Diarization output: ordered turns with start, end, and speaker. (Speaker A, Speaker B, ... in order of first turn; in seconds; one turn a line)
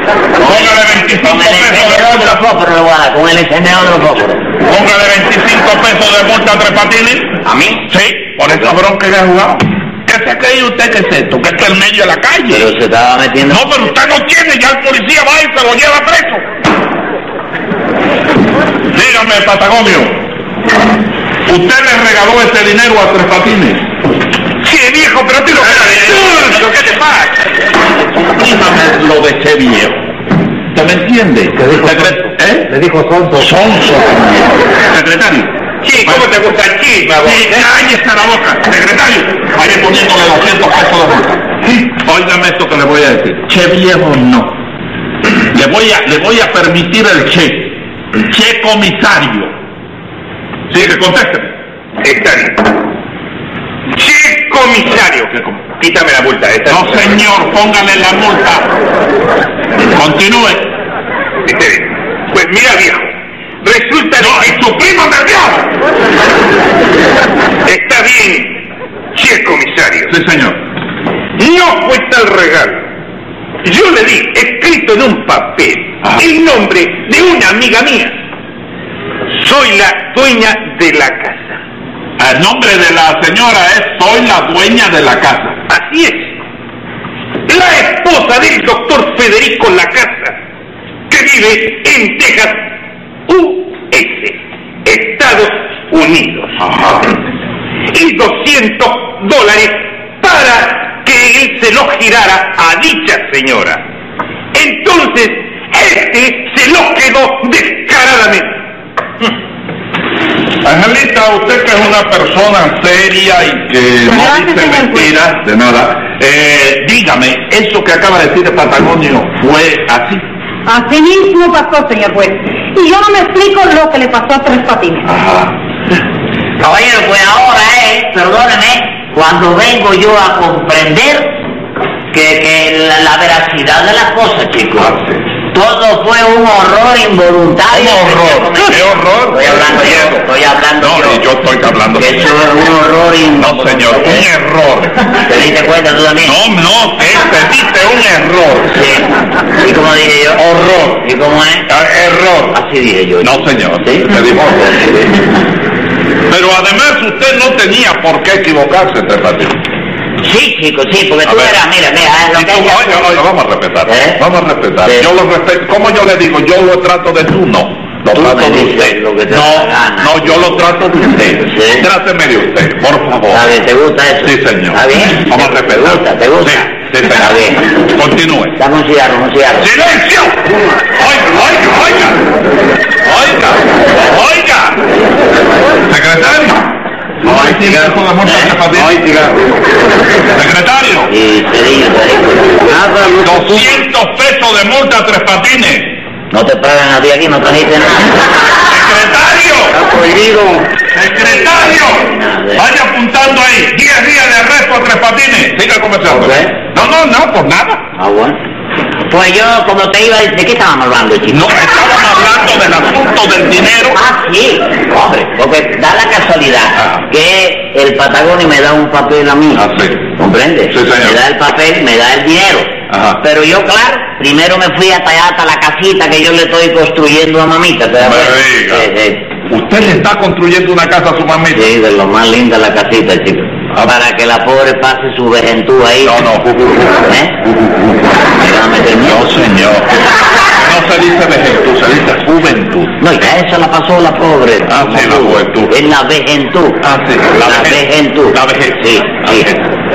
Speaker A: 0.4-4.5
Speaker B: 0.4-2.4
Speaker B: 4.6-12.7
Speaker A: 7.4-7.9
Speaker A: 12.5-13.6
Speaker B: 13.5-16.4
Speaker B: 18.9-20.2
Speaker B: 21.5-23.9
Speaker C: 24.6-27.5
Speaker B: 25.6-26.7
Speaker B: 27.9-30.0
Speaker B: 30.7-32.7
Speaker D: 31.6-32.2
Speaker D: 32.7-33.5
Speaker B: 33.4-36.3
Speaker C: 35.8-37.6
Speaker B: 37.0-44.6
Speaker B: 45.5-49.5
Speaker B: 50.7-51.5
Speaker C: 52.0-52.7
Speaker C: 53.9-57.2
Speaker B: 56.7-58.8
Speaker B: 59.8-60.7
Speaker C: 61.5-64.7
Speaker B: 64.2-65.7
Speaker C: 67.6-70.1
Speaker B: 70.1-70.6
Speaker C: 71.4-72.9
Speaker C: 73.6-78.2
Speaker C: 79.3-81.6
Speaker B: 82.2-85.6
Speaker C: 85.7-86.3
Speaker C: 87.5-90.4
Speaker C: 91.1-92.7
Speaker C: 93.3-96.6
Speaker B: 96.6-97.0
Speaker C: 97.9-103.8
Speaker C: 104.5-108.6
Speaker B: 110.6-120.2
Speaker E: 114.1-115.1
Speaker E: 120.7-125.1
Speaker B: 125.0-125.5
Speaker A: 126.6-131.4
Speaker A: 132.1-134.9
Speaker B: 134.8-135.2
Speaker A: 135.5-141.2
Speaker B: 137.7-140.2
Speaker B: 140.8-142.3
Speaker A: 142.0-144.3
Speaker B: 143.4-145.1
Speaker A: 145.2-146.4
Speaker B: 146.2-148.8
Speaker A: 148.7-151.7
Speaker B: 150.4-151.0
Speaker B: 151.7-152.6
Speaker A: 152.5-154.1
Speaker B: 153.2-154.9
Speaker B: 156.3-159.6
Speaker A: 160.2-163.2
Speaker B: 161.3-161.6
Speaker B: 162.3-173.4
Speaker A: 163.9-164.2
Speaker A: 168.1-170.6
Speaker A: 171.5-171.9
Speaker A: 173.3-177.7
Speaker B: 174.2-178.6
Speaker A: 178.6-179.7
Speaker B: 179.6-182.3
Speaker B: 183.0-184.8
Speaker B: 185.8-189.0
Speaker D: 188.9-189.4
Speaker B: 190.3-191.1
Speaker A: 191.1-192.6
Speaker D: 192.6-193.6
Speaker B: 193.2-196.0
Speaker A: 196.3-198.3
Speaker B: 198.7-199.9
Speaker D: 199.8-200.7
Speaker B: 200.9-207.8
Speaker A: 201.2-202.6
Speaker A: 206.1-206.5
Speaker A: 208.0-208.4
Speaker A: 209.1-211.5
Speaker B: 211.3-214.0
Speaker A: 213.9-229.3
Speaker B: 219.6-220.0
Speaker B: 220.7-221.2
Speaker B: 222.9-223.2
Speaker B: 228.1-228.9
Speaker B: 229.5-231.7
Speaker A: 231.5-236.1
Speaker B: 236.0-237.9
Speaker A: 237.1-237.4
Speaker A: 238.4-239.3
Speaker B: 239.0-243.0
Speaker A: 243.0-246.8
Speaker B: 244.7-245.7
Speaker B: 246.8-249.7
Speaker A: 247.4-249.5